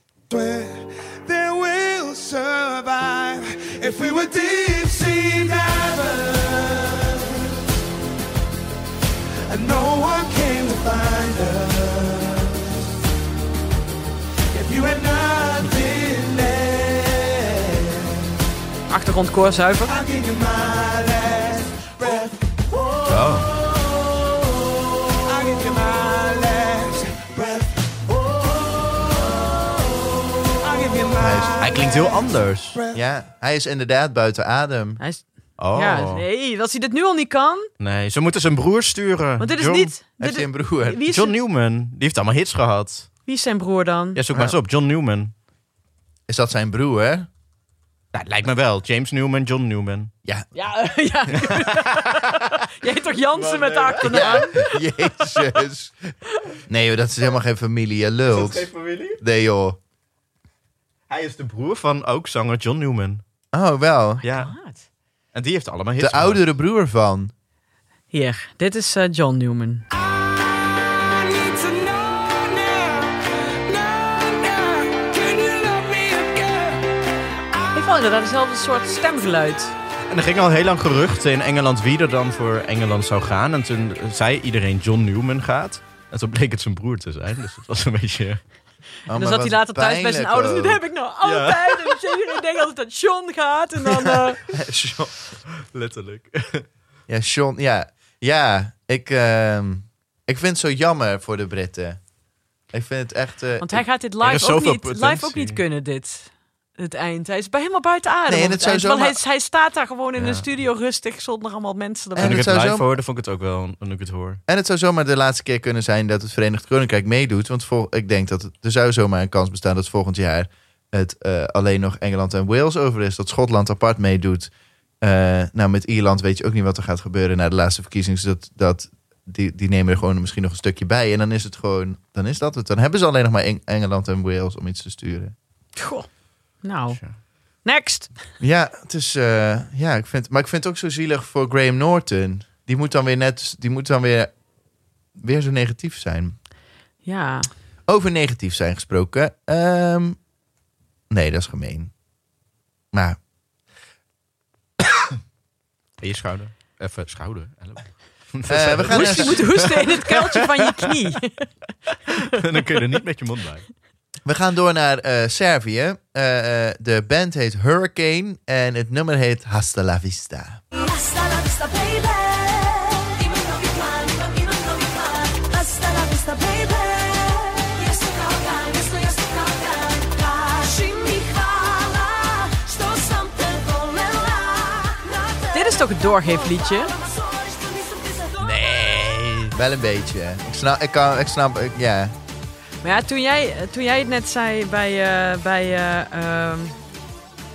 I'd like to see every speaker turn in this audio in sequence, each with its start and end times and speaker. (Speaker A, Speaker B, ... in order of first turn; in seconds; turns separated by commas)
Speaker A: 0.3-7.6, Speaker A: 9.5-12.6, Speaker A: 14.5-18.2, Speaker B: 18.9-19.9, Speaker A: 19.9-32.1, Speaker C: 23.1-23.5, Speaker D: 31.2-31.6, Speaker C: 31.6-32.8, Speaker D: 32.9-35.0, Speaker B: 35.0-37.7, Speaker C: 35.6-36.2, Speaker C: 37.8-39.9, Speaker B: 39.4-41.3, Speaker D: 40.2-41.0, Speaker C: 41.1-43.1, Speaker B: 43.2-44.2, Speaker C: 44.1-45.3, Speaker D: 46.3-47.3, Speaker C: 48.1-50.1, Speaker B: 50.5-55.4, Speaker C: 51.4-51.8, Speaker C: 53.4-54.5, Speaker D: 54.0-56.1, Speaker D: 56.7-59.8, Speaker C: 58.3-59.2, Speaker C: 61.1-63.2, Speaker D: 63.5-64.2, Speaker C: 64.2-64.5, Speaker B: 64.3-64.8, Speaker C: 65.3-66.4, Speaker D: 66.0-67.3, Speaker B: 68.1-69.8, Speaker A: 70.9-76.8, Speaker B: 77.7-79.7, Speaker C: 80.1-88.4, Speaker D: 89.1-90.8, Speaker B: 89.1-94.4, Speaker C: 91.2-92.0, Speaker D: 94.5-95.1, Speaker C: 95.6-96.7, Speaker D: 97.1-102.0, Speaker D: 102.7-103.8, Speaker B: 103.6-112.5, Speaker C: 104.2-105.6, Speaker D: 108.3-109.2, Speaker C: 110.2-110.4, Speaker D: 112.2-112.8, Speaker C: 112.2-114.4, Speaker D: 114.5-135.3, Speaker B: 135.8-136.1, Speaker B: 136.6-137.0, Speaker B: 137.6-138.1, Speaker D: 138.4-144.3, Speaker D: 145.2-146.3, Speaker B: 147.0-147.5, Speaker D: 147.9-150.2, Speaker D: 151.1-151.9, Speaker D: 152.9-153.2, Speaker C: 156.0-160.7, Speaker D: 158.5-159.5, Speaker B: 158.9-161.5, Speaker C: 162.3-163.7, Speaker D: 164.2-170.6, Speaker E: 170.7-188.5, Speaker B: 185.5-186.9, Speaker D: 188.4-192.1, Speaker B: 192.8-196.8